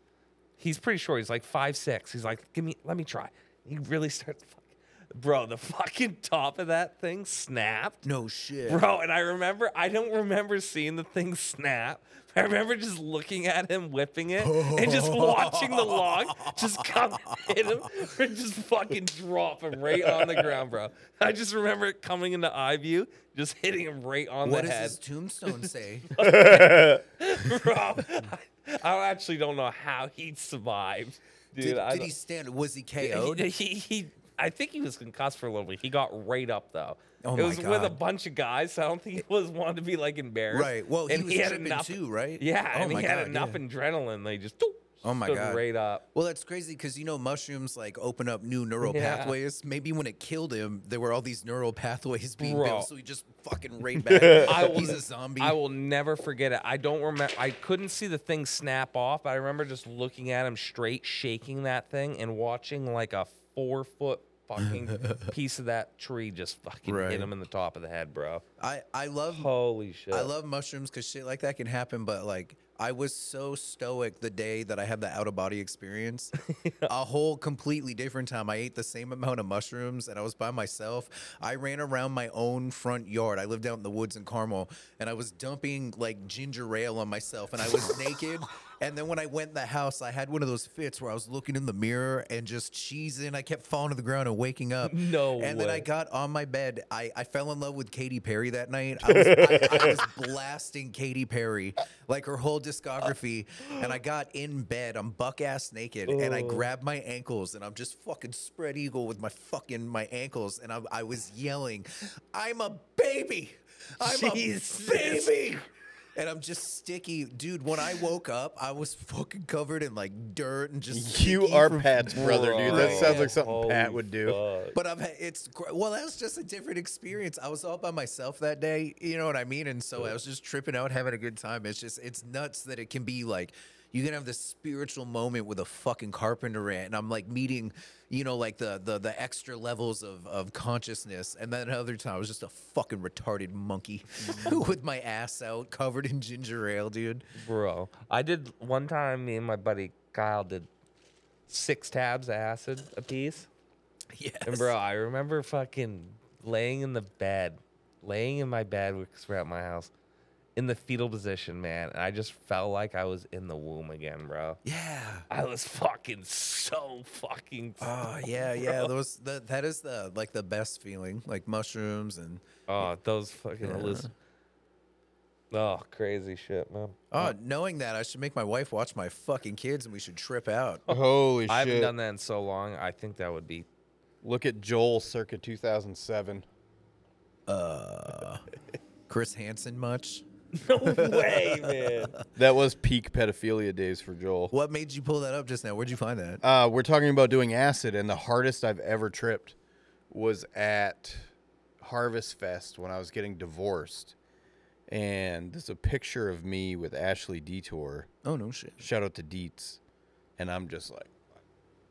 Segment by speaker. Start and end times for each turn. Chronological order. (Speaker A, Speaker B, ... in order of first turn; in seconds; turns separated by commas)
Speaker A: 0.6-8.0, Speaker B: 8.0-8.8, Speaker A: 8.7-25.0, Speaker B: 14.4-17.7, Speaker B: 20.0-20.6, Speaker B: 24.4-26.1, Speaker A: 26.1-32.1, Speaker C: 26.2-27.0, Speaker B: 31.6-33.5, Speaker A: 33.0-46.0, Speaker B: 37.2-38.0, Speaker B: 40.5-43.6, Speaker B: 45.0-45.6, Speaker B: 46.1-55.6, Speaker A: 48.8-49.4, Speaker A: 52.4-52.9, Speaker C: 54.0-54.8, Speaker A: 54.5-68.4, Speaker B: 64.6-65.3, Speaker B: 66.9-67.3, Speaker B: 68.6-69.5, Speaker A: 69.3-70.3, Speaker B: 70.1-76.3, Speaker A: 76.5-76.9, Speaker B: 76.9-115.6, Speaker A: 94.8-95.9, Speaker C: 99.3-99.9, Speaker A: 99.6-99.9, Speaker A: 106.1-106.7, Speaker A: 114.0-115.4, Speaker B: 116.2-123.3, Speaker C: 120.9-124.4, Speaker A: 122.2-124.8, Speaker B: 124.7-147.2, Speaker A: 147.3-150.7, Speaker A: 151.5-153.5, Speaker B: 154.1-154.7, Speaker A: 154.4-159.9, Speaker A: 160.6-164.6, Speaker B: 164.7-165.3, Speaker A: 165.3-168.9, Speaker B: 167.8-172.9, Speaker A: 172.7-174.1, Speaker B: 173.6-174.1, Speaker A: 175.5-177.3, Speaker B: 177.1-180.8, Speaker C: 180.9-181.9, Speaker A: 181.5-183.7, Speaker C: 184.2-186.5, Speaker B: 187.5-188.4, Speaker B: 189.1-190.2, Speaker A: 190.6-192.1, Speaker B: 190.9-192.2, Speaker C: 192.4-194.5, Speaker B: 194.5-196.4, Speaker C: 196.4-199.6, Speaker C: 200.1-204.2, Speaker C: 204.9-208.1, Speaker B: 208.2-208.8, Speaker C: 208.8-209.8, Speaker C: 210.4-211.1